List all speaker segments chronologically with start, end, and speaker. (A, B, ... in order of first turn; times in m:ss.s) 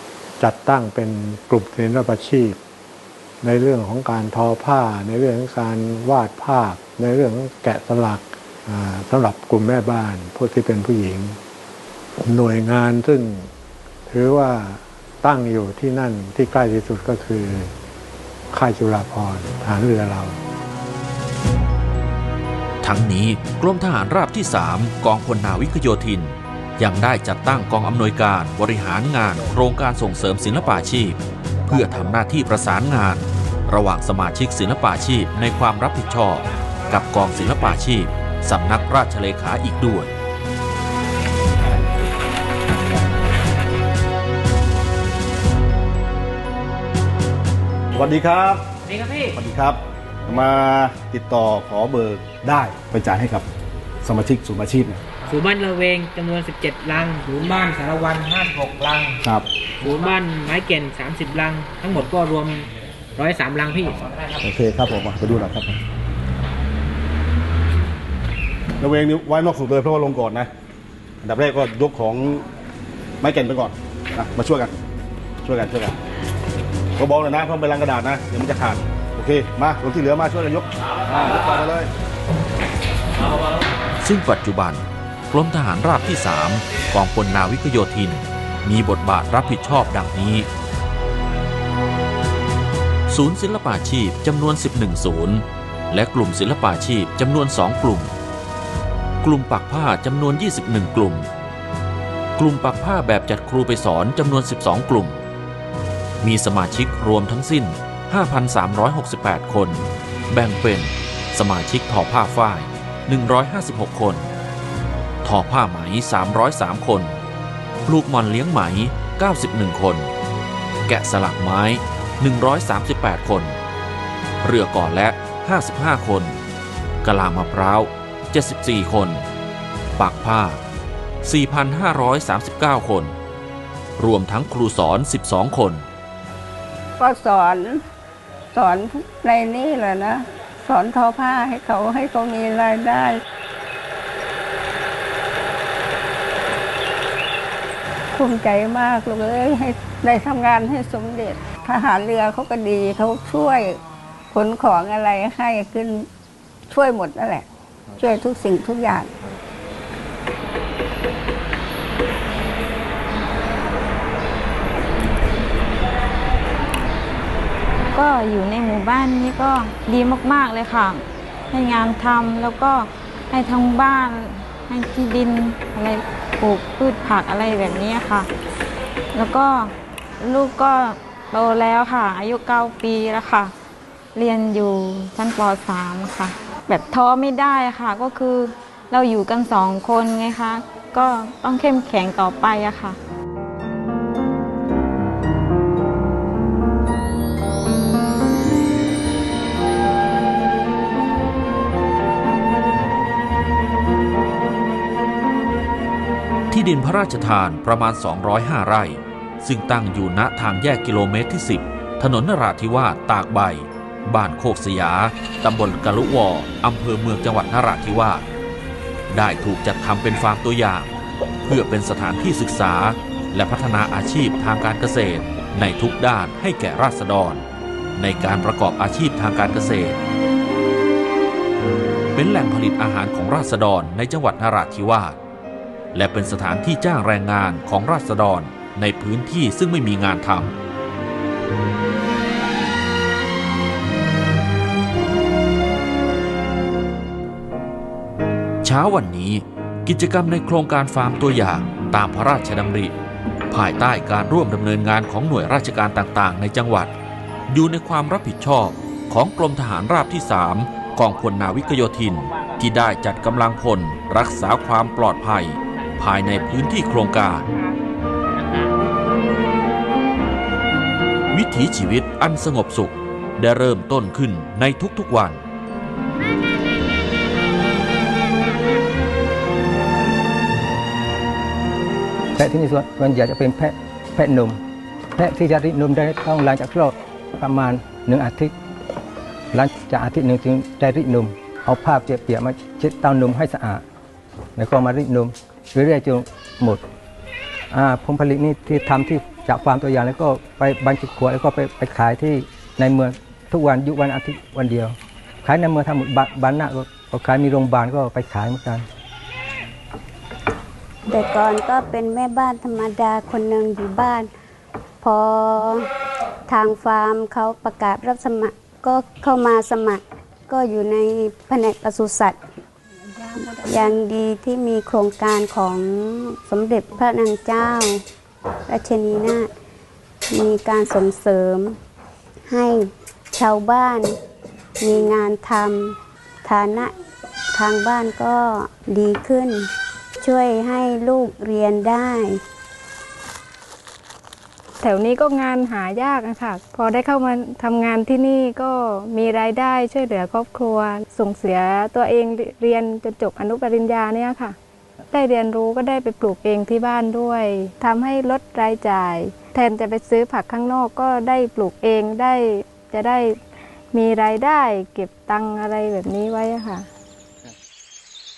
0:00.4-0:02.6 A
0:03.4-0:11.4 A
0:12.2-0:13.5 A
0:14.1-0:17.7 A
0:18.5-0:20.4 A
0:22.8-0:40.1 B
0:47.9-0:48.6 C
0:48.9-0:49.4 D
0:49.3-0:53.5 C
0:54.0-0:55.0 C
0:55.2-0:59.2 D
0:59.8-1:04.0 D
1:04.4-1:05.8 C
1:08.8-1:10.5 C
1:11.2-1:12.4 C
1:13.2-1:14.7 C
1:15.4-1:16.0 C
1:17.0-1:21.9 C
1:24.0-1:30.5 B
1:33.1-1:38.1 B
1:39.2-1:41.3 B
1:42.4-1:45.2 B
1:46.2-1:54.3 B
1:55.2-1:57.2 B
1:57.8-2:00.1 B
2:00.9-2:03.6 B
2:04.4-2:06.4 B
2:07.0-2:09.2 B
2:10.0-2:10.6 B
2:11.2-2:13.2 B
2:14.0-2:15.8 B
2:17.0-2:17.8 E
2:18.5-2:23.2 E
2:28.1-2:33.8 E
2:34.3-2:36.0 E
2:36.7-2:39.1 E
2:47.9-2:58.3 F
2:59.1-3:03.5 F
3:04.1-3:13.0 F
3:26.5-3:38.2 B
3:39.1-3:40.9 B
3:41.4-3:47.4 B
3:48.0-3:50.0 B
3:52.1-3:55.2 B
3:55.9-4:00.5 B
4:08.6-4:12.9 B
4:13.5-4:16.9 B
4:17.5-4:27.5 B
4:31.3-4:35.4 B
4:42.4-4:44.6 G
4:45.2-4:48.5 G
4:49.5-4:53.8 G
4:54.6-4:56.8 G
4:57.7-5:08.8 G
5:11.1-5:14.3 H
5:15.0-5:15.9 H
5:16.5-5:22.4 H
5:23.2-5:23.9 I
5:23.6-5:28.0 H
5:28.7-5:29.5 H
5:30.3-5:31.8 H
5:32.5-5:34.2 H
5:34.8-5:36.9 H
5:37.5-5:39.7 H
5:40.2-5:42.4 H
5:44.8-5:54.6 I
5:55.1-6:03.4 I
6:03.9-6:06.8 I